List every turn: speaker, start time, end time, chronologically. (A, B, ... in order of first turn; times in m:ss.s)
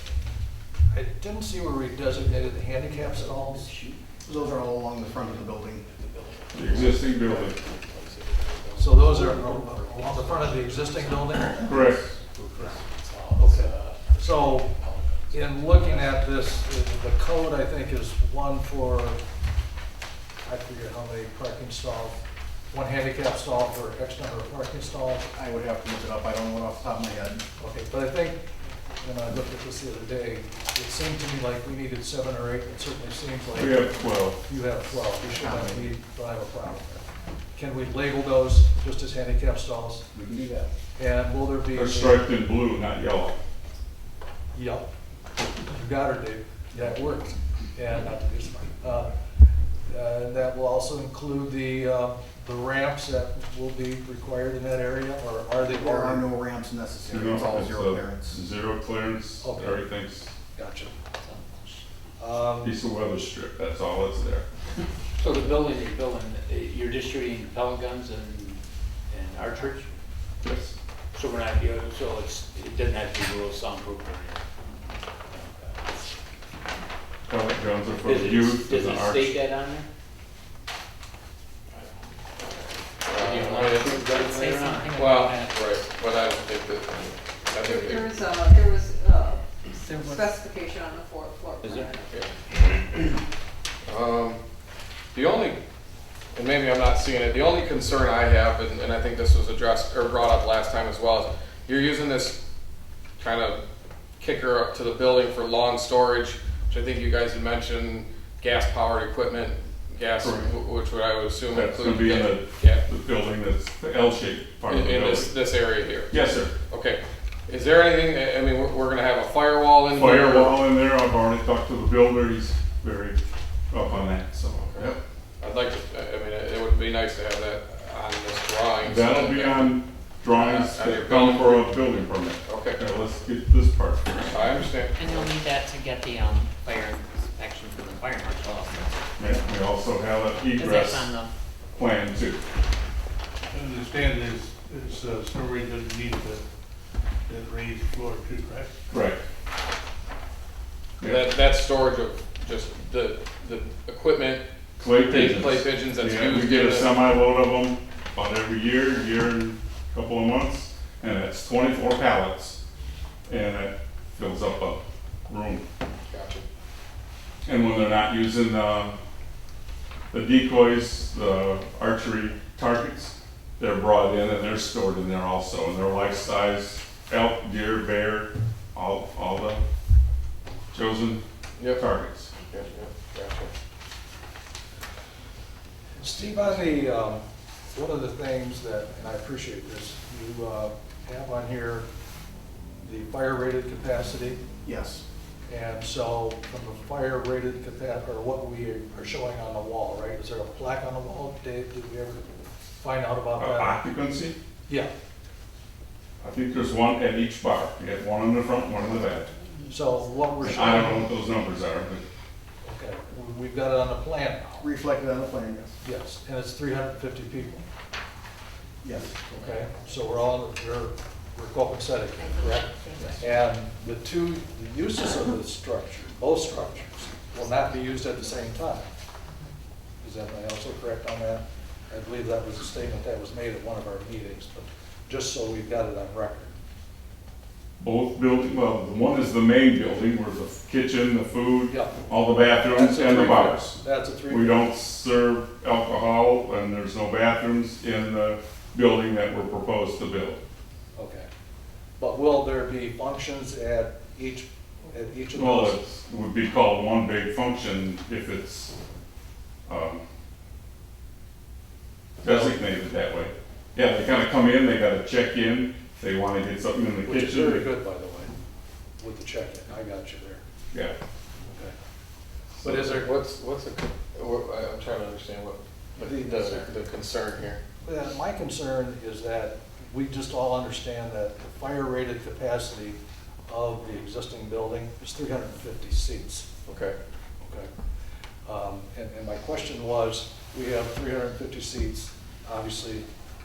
0:00.9-0:03.7 A
0:03.0-0:04.0 B
0:04.2-0:05.9 C
0:04.9-0:07.7 B
0:06.5-0:07.6 D
0:08.2-0:08.6 E
0:08.7-0:16.2 B
0:08.8-0:11.7 A
0:11.6-0:12.1 D
0:13.4-0:14.7 A
0:15.3-0:19.2 A
0:20.4-0:25.3 A
0:25.3-0:27.4 C
0:27.6-0:28.4 A
0:29.0-0:40.1 A
0:33.5-0:34.4 D
0:35.2-0:36.0 C
0:40.2-0:40.7 C
0:41.0-0:42.3 A
0:41.7-0:43.4 D
0:44.5-0:44.9 A
0:45.7-0:49.1 A
0:49.9-0:56.3 A
0:55.7-0:58.4 C
0:57.1-1:00.3 D
0:59.4-0:59.9 A
1:00.6-1:00.9 A
1:02.2-1:02.8 A
1:02.6-1:04.4 D
1:05.2-1:10.0 B
1:10.4-1:10.8 D
1:11.1-1:14.8 B
1:15.3-1:16.1 B
1:17.3-1:19.4 D
1:18.0-1:19.9 B
1:23.1-1:24.1 E
1:23.2-1:25.0 B
1:23.5-1:25.6 F
1:24.9-1:28.2 E
1:27.6-1:32.1 G
1:29.8-1:30.4 F
1:31.6-1:31.9 B
1:32.1-1:33.0 E
1:33.8-1:34.4 E
1:35.1-1:35.6 E
1:36.3-1:42.4 E
1:43.2-1:43.6 E
1:44.2-1:52.8 E
1:50.2-1:50.5 D
1:51.5-1:55.3 D
1:54.7-1:56.1 E
1:56.1-1:56.5 D
1:56.7-2:00.6 E
1:59.9-2:03.2 D
2:03.7-2:05.0 D
2:04.5-2:11.8 E
2:08.8-2:14.4 D
2:12.4-2:12.8 E
2:14.3-2:15.3 E
2:14.9-2:19.0 F
2:19.2-2:21.2 D
2:20.6-2:21.3 F
2:21.7-2:22.4 D
2:23.5-2:26.4 H
2:27.3-2:28.8 H
2:28.9-2:29.2 D
2:31.0-2:31.3 D
2:31.0-2:34.4 E
2:34.8-2:42.6 D
2:35.0-2:37.0 E
2:43.3-2:45.7 D
2:46.1-2:46.4 E
2:47.4-2:49.0 D
2:50.1-2:59.6 D
3:00.7-3:02.3 D
3:02.4-3:03.5 E
3:06.0-3:07.2 A
3:07.7-3:11.8 A
3:12.8-3:14.4 A
3:14.6-3:15.0 C
3:15.5-3:22.3 A
3:22.8-3:23.8 A
3:23.4-3:24.4 D
3:26.2-3:29.3 D
3:29.7-3:31.0 A
3:30.4-3:32.0 D
3:32.6-3:34.7 A
3:34.6-3:35.8 C
3:35.8-3:37.6 A
3:38.8-3:39.2 C
3:39.3-3:48.9 A
3:50.0-3:56.5 A
3:57.8-4:10.4 D
4:01.7-4:02.0 A
4:02.6-4:04.7 A
4:10.9-4:11.3 A
4:12.0-4:15.8 A
4:15.3-4:18.7 D
4:19.7-4:20.0 D
4:22.2-4:27.7 D
4:22.2-4:22.6 A
4:27.0-4:28.3 A
4:29.0-4:30.4 A
4:31.5-4:31.7 A
4:32.6-4:37.6 E
4:32.6-4:33.0 A
4:36.0-4:36.8 A
4:37.8-4:46.5 A
4:46.6-4:47.0 E
4:47.4-4:47.7 A
4:48.4-4:53.0 A